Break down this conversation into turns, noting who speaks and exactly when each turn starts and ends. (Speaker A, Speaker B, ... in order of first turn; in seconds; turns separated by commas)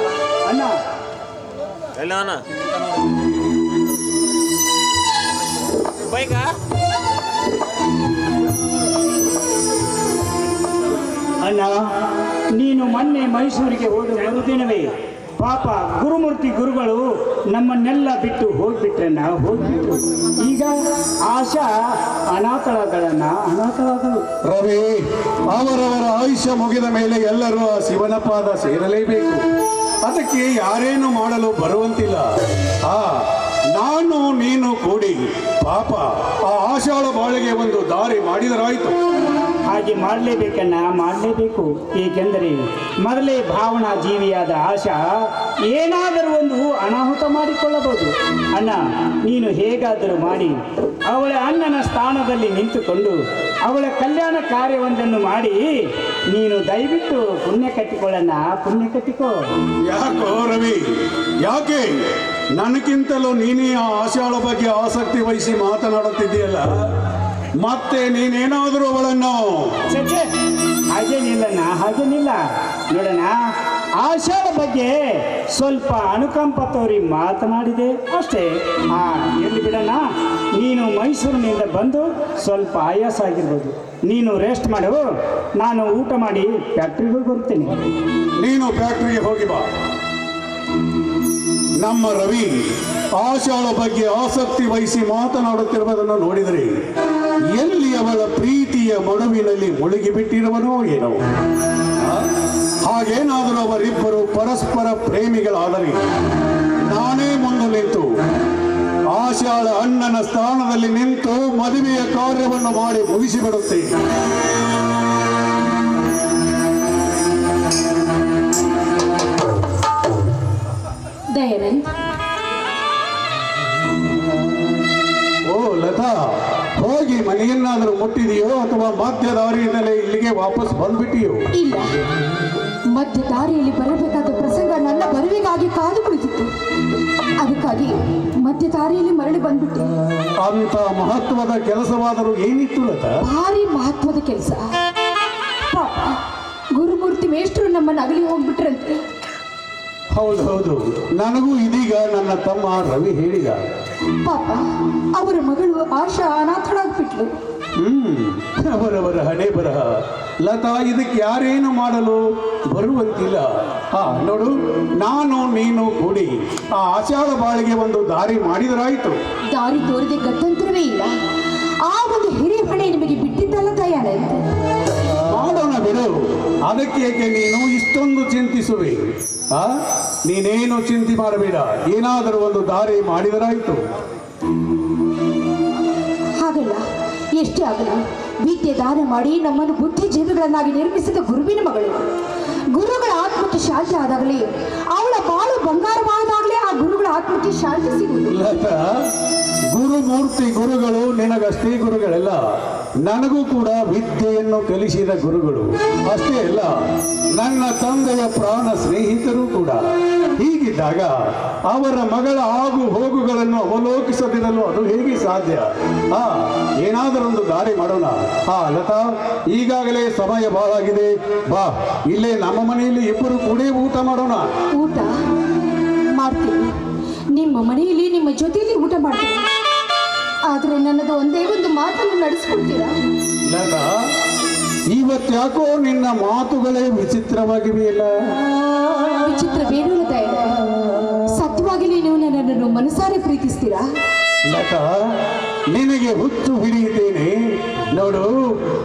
Speaker A: 0.4-0.8, Speaker A: 11.4-11.8, Speaker A: 12.6-20.7, Speaker A: 21.3-21.7, Speaker A: 22.3-24.2, Speaker B: 24.4-29.5, Speaker B: 30.0-39.0, Speaker A: 39.7-45.0, Speaker A: 45.7-55.7, Speaker A: 56.3-59.4, Speaker B: 59.8-60.9, Speaker B: 61.4-62.0, Speaker B: 62.6-66.9, Speaker B: 67.6-69.8, Speaker A: 69.9-70.3, Speaker A: 70.9-73.4, Speaker A: 74.0-80.0, Speaker A: 80.6-85.0, Speaker A: 85.6-87.8, Speaker B: 88.4-89.7, Speaker B: 91.8-92.6, Speaker B: 93.2-96.7, Speaker B: 97.5-101.2, Speaker B: 102.0-102.3, Speaker B: 102.8-106.0, Speaker B: 106.8-108.2, Speaker B: 109.1-113.9, Speaker C: 121.3-121.8, Speaker B: 125.5-131.4, Speaker C: 131.5-131.9, Speaker C: 132.9-136.5, Speaker C: 137.4-139.9, Speaker B: 140.4-143.2, Speaker C: 143.2-144.7, Speaker C: 145.7-146.2, Speaker C: 146.7-149.0, Speaker B: 150.1-153.6, Speaker C: 154.2-157.3, Speaker B: 157.8-169.2, Speaker C: 169.5-171.1, Speaker C: 171.8-174.4, Speaker B: 175.3-179.7, Speaker B: 180.2-183.8, Speaker C: 186.4-186.8, Speaker C: 187.4-192.1, Speaker C: 192.7-198.4, Speaker B: 198.3-198.9, Speaker B: 199.7-202.4, Speaker B: 203.0-206.7, Speaker B: 207.3-209.8, Speaker B: 210.4-224.5, Speaker C: 224.8-225.1, Speaker C: 226.2-226.7, Speaker C: 227.3-229.4, Speaker C: 230.5-232.9, Speaker B: 233.4-233.9, Speaker B: 234.9-238.1, Speaker C: 239.2-240.5, Speaker C: 241.3-243.9, Speaker B: 244.5-245.0, Speaker B: 245.7-247.3, Speaker B: 247.9-248.4